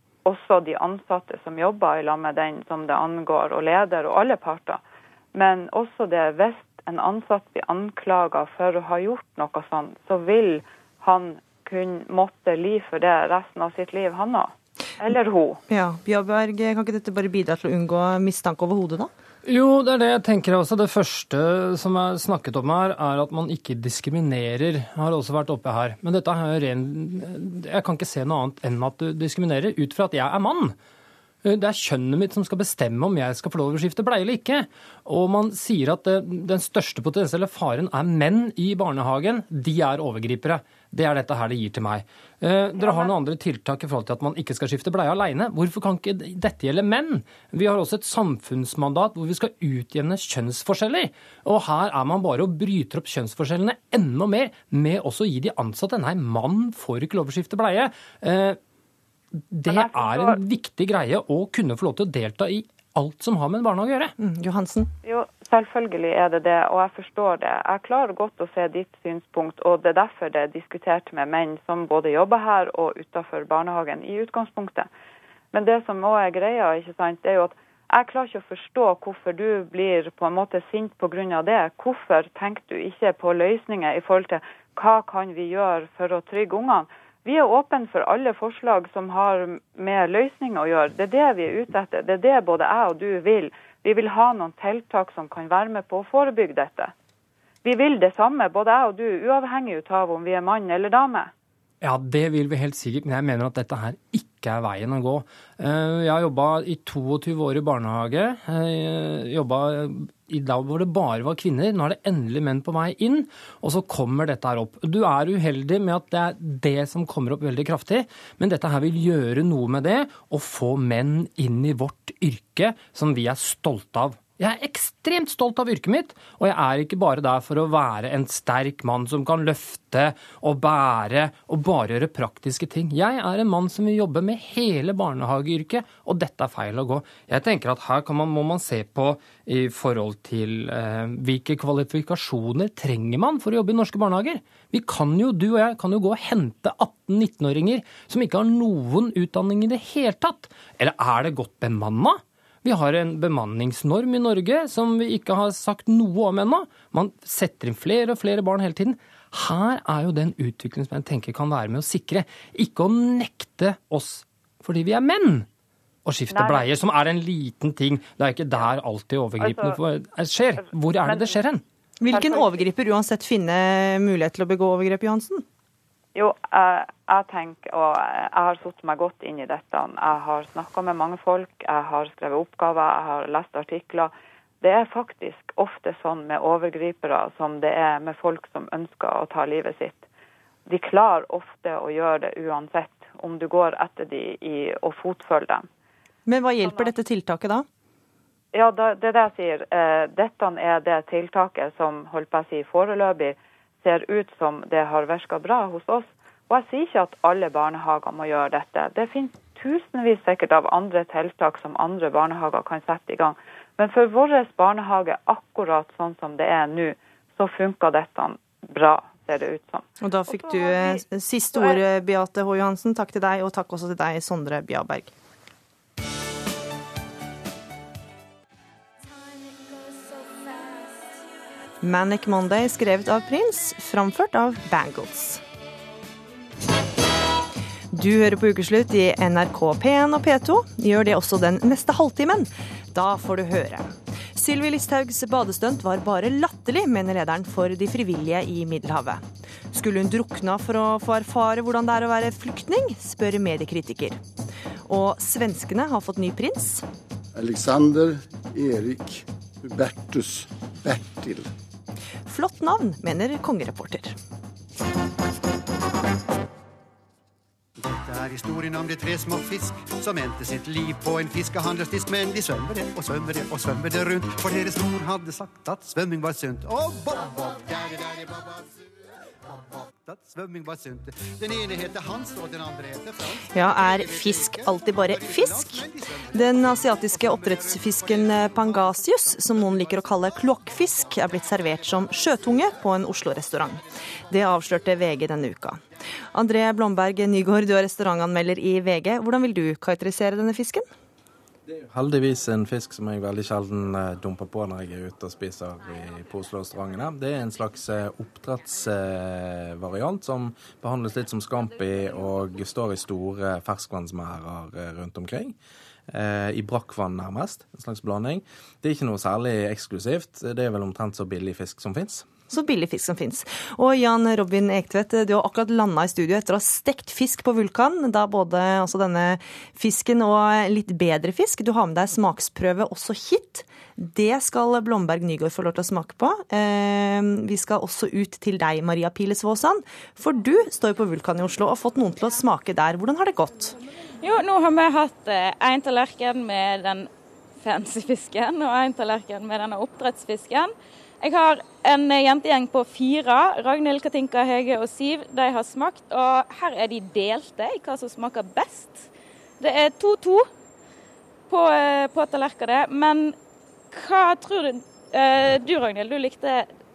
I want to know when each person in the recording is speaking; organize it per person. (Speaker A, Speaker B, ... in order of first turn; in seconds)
Speaker A: 0.2-4.8, 5.3-15.6, 59.7-60.4, 65.0-74.9, 75.5-96.9, 97.6-101.3, 166.3-166.7, 169.4-169.8, 170.9-171.4, 172.1-172.7, 176.1-190.0, 190.7-195.7, 196.6-196.9, 198.5-221.0, 221.6-221.8
Speaker B: 15.7-19.1, 64.2-64.9, 172.0-175.4, 196.3-197.6, 220.0-225.1, 231.8-235.4, 237.9-254.2, 254.9-256.8, 262.3-264.1, 283.5-295.8, 296.3-300.9, 322.5-343.7
Speaker C: 19.4-30.8, 31.4-58.6, 59.5-64.1, 101.8-165.5, 166.1-171.6
Speaker D: 267.8-278.6, 279.5-286.1
Speaker E: 301.7-315.5, 316.1-322.3
Speaker F: 344.2-347.1, 347.6-360.5, 361.5-363.4, 363.9-366.7